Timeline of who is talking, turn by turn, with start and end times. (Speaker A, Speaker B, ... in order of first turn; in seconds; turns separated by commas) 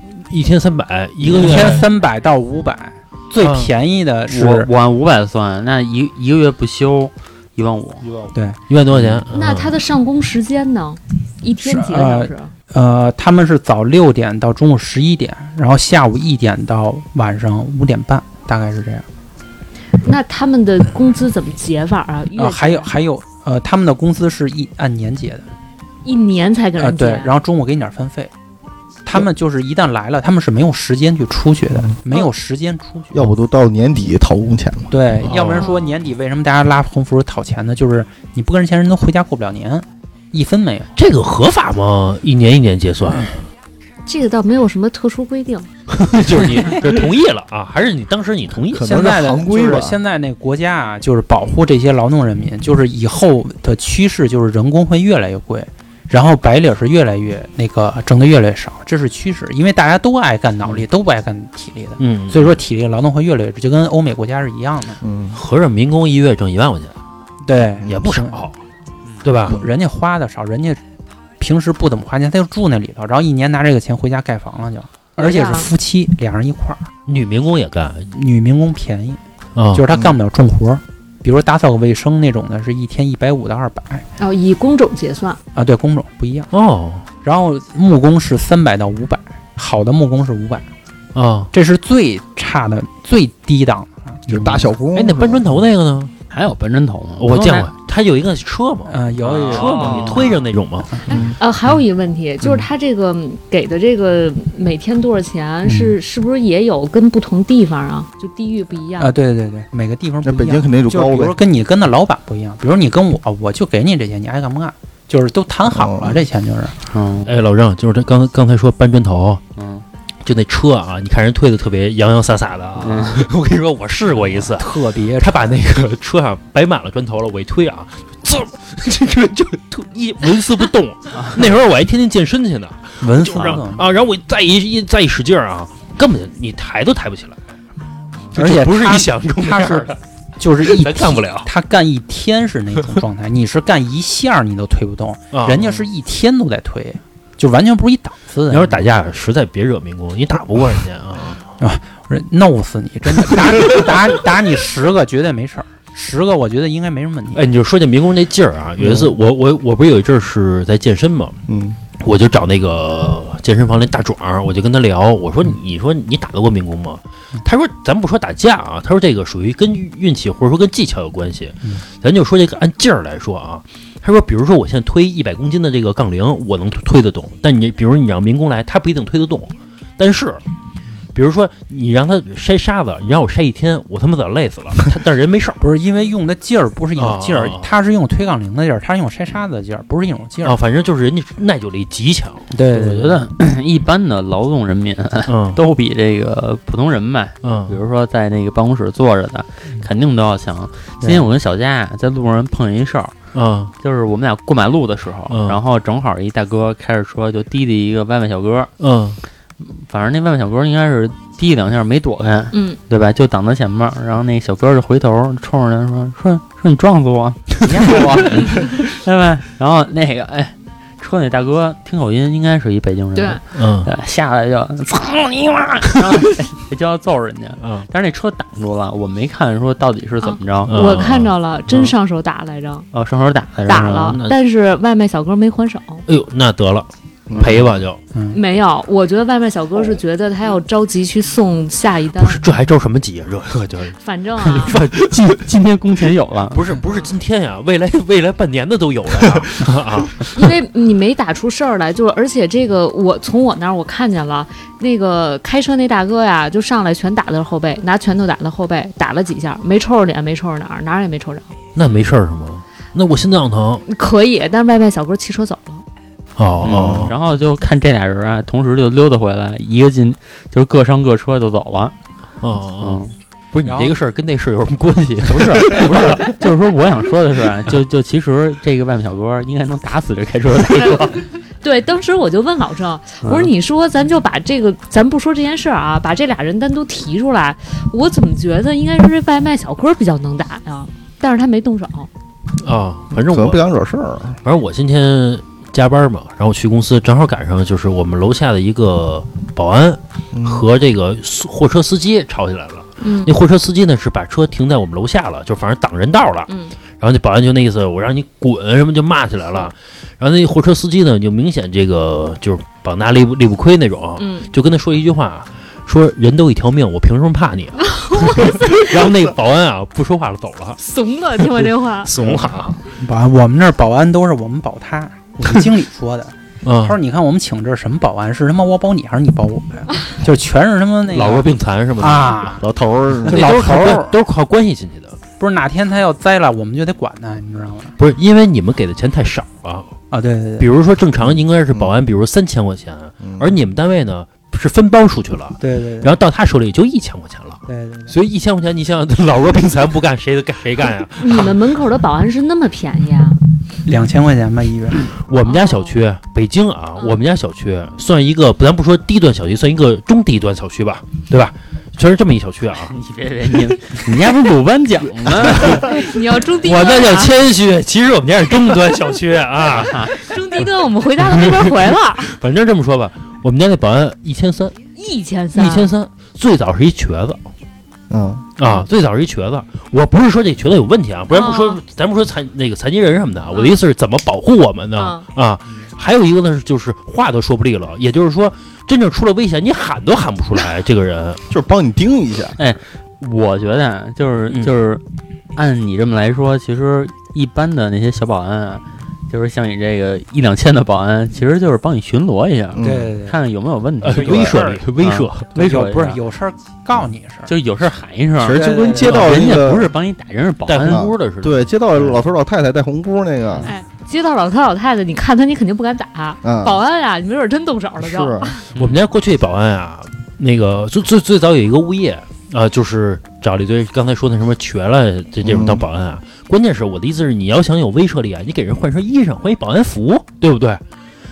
Speaker A: 0.1-1.9, Speaker B: 1.2-4.7, Speaker A: 3.4-3.7, Speaker C: 4.3-8.1, Speaker D: 8.0-8.3, Speaker B: 8.3-8.6, Speaker A: 8.7-9.8, Speaker E: 9.3-12.5, Speaker B: 11.6-19.1, Speaker E: 20.0-22.9, Speaker B: 22.4-25.5, Speaker E: 26.0-27.3, Speaker B: 26.8-28.3, Speaker B: 29.1-33.1, Speaker D: 33.1-34.9, Speaker B: 34.9-40.9, Speaker A: 35.2-35.7, Speaker A: 41.0-43.4, Speaker E: 44.1-45.7, Speaker A: 46.0-49.0, Speaker D: 48.7-50.0, Speaker B: 48.8-65.0, Speaker A: 62.0-62.6, Speaker D: 65.0-65.4, Speaker A: 65.3-67.0, Speaker B: 67.4-68.5, Speaker A: 67.9-68.6, Speaker A: 69.2-69.6, Speaker B: 69.5-70.8, Speaker B: 71.4-76.9, Speaker E: 75.2-75.7, Speaker A: 77.1-78.1, Speaker B: 78.1-79.2, Speaker A: 79.5-79.8, Speaker B: 79.7-84.1, Speaker E: 84.2-85.4, Speaker B: 85.5-86.5, Speaker A: 86.5-87.1, Speaker B: 87.2-90.7, Speaker A: 91.1-91.5, Speaker B: 91.5-94.7, Speaker D: 94.3-95.5, Speaker A: 95.0-96.1, Speaker C: 96.3-97.7, Speaker A: 97.2-101.3, Speaker B: 98.9-100.2, Speaker C: 99.5-100.4, Speaker D: 101.1-101.3, Speaker E: 101.1-109.1, Speaker B: 105.7-106.0, Speaker B: 109.0-116.8, Speaker D: 110.2-111.4, Speaker D: 115.7-116.2, Speaker C: 116.9-117.3, Speaker A: 117.2-119.4, Speaker C: 119.6-119.8, Speaker A: 120.2-137.4, Speaker C: 122.8-123.3, Speaker B: 124.5-125.6, Speaker C: 131.2-131.5, Speaker B: 133.0-133.9, Speaker A: 138.3-140.0, Speaker B: 138.3-148.9, Speaker A: 140.6-141.5, Speaker A: 145.3-145.8, Speaker A: 148.5-151.4, Speaker B: 151.6-157.4, Speaker A: 157.3-161.4, Speaker D: 161.5-161.8, Speaker A: 162.0-180.4, Speaker A: 181.1-185.6, Speaker B: 185.6-190.6, Speaker A: 187.0-187.7, Speaker A: 190.4-192.5, Speaker B: 192.5-193.2, Speaker C: 192.7-203.2, Speaker A: 195.3-195.6, Speaker A: 197.4-197.8, Speaker B: 201.0-201.3, Speaker A: 203.3-203.7, Speaker C: 203.8-208.7, Speaker A: 205.3-205.6, Speaker A: 208.8-209.2, Speaker C: 209.6-230.9, Speaker E: 212.5-212.8, Speaker E: 223.2-223.4, Speaker A: 223.5-223.9, Speaker A: 227.6-227.9, Speaker E: 230.2-232.9, Speaker A: 230.7-231.9, Speaker C: 232.9-234.2, Speaker E: 233.7-236.1, Speaker A: 234.1-234.4, Speaker A: 236.1-238.0, Speaker D: 237.3-237.7, Speaker B: 238.1-238.4, Speaker E: 238.3-242.4, Speaker A: 242.2-245.3, Speaker E: 244.0-244.8, Speaker C: 244.6-246.6, Speaker A: 246.5-250.3, Speaker E: 250.3-261.6, Speaker A: 261.8-263.9, Speaker E: 263.9-265.8, Speaker A: 266.4-267.1, Speaker C: 266.6-271.9, Speaker D: 266.7-267.1, Speaker A: 272.4-276.4, Speaker C: 272.8-273.1, Speaker B: 273.6-273.9, Speaker C: 275.1-281.2, Speaker E: 281.6-292.1, Speaker C: 283.2-283.5, Speaker A: 292.6-293.6, Speaker D: 293.1-294.4, Speaker A: 294.4-320.8, Speaker D: 300.3-300.6, Speaker E: 303.0-303.4, Speaker E: 306.5-306.8, Speaker E: 314.2-314.5, Speaker E: 317.9-318.9, Speaker E: 320.8-322.1, Speaker A: 321.4-322.8, Speaker B: 322.9-332.6, Speaker A: 326.6-327.0, Speaker A: 331.1-332.5, Speaker D: 332.6-333.9, Speaker A: 333.2-335.2, Speaker B: 333.3-334.1, Speaker B: 335.4-338.0, Speaker A: 338.0-339.9, Speaker B: 340.1-340.7, Speaker A: 340.6-351.5, Speaker D: 343.2-343.5, Speaker B: 345.6-346.1, Speaker B: 347.7-348.1, Speaker E: 351.2-353.4, Speaker B: 353.9-355.0, Speaker A: 355.1-362.9, Speaker E: 355.4-356.0, Speaker E: 357.0-357.2, Speaker C: 362.9-366.1, Speaker A: 365.3-366.0, Speaker E: 365.8-367.3, Speaker A: 366.5-370.6, Speaker C: 369.7-370.1, Speaker E: 370.1-372.3, Speaker A: 371.2-374.9, Speaker E: 375.0-375.9, Speaker A: 375.6-377.4, Speaker D: 378.1-378.5, Speaker A: 378.6-391.4, Speaker E: 381.3-381.8, Speaker E: 385.0-385.2, Speaker D: 391.5-392.6, Speaker C: 392.6-395.0, Speaker C: 395.5-406.2, Speaker D: 402.7-403.1, Speaker B: 402.8-403.4, Speaker A: 404.0-405.5, Speaker B: 404.2-404.8, Speaker B: 405.6-407.5, Speaker C: 407.5-411.1, Speaker D: 408.4-409.9, Speaker B: 408.5-409.2, Speaker A: 410.7-412.2, Speaker D: 410.8-413.7, Speaker E: 413.6-418.7, Speaker D: 416.4-416.8, Speaker D: 418.0-418.5, Speaker A: 418.7-430.8, Speaker D: 425.4-425.8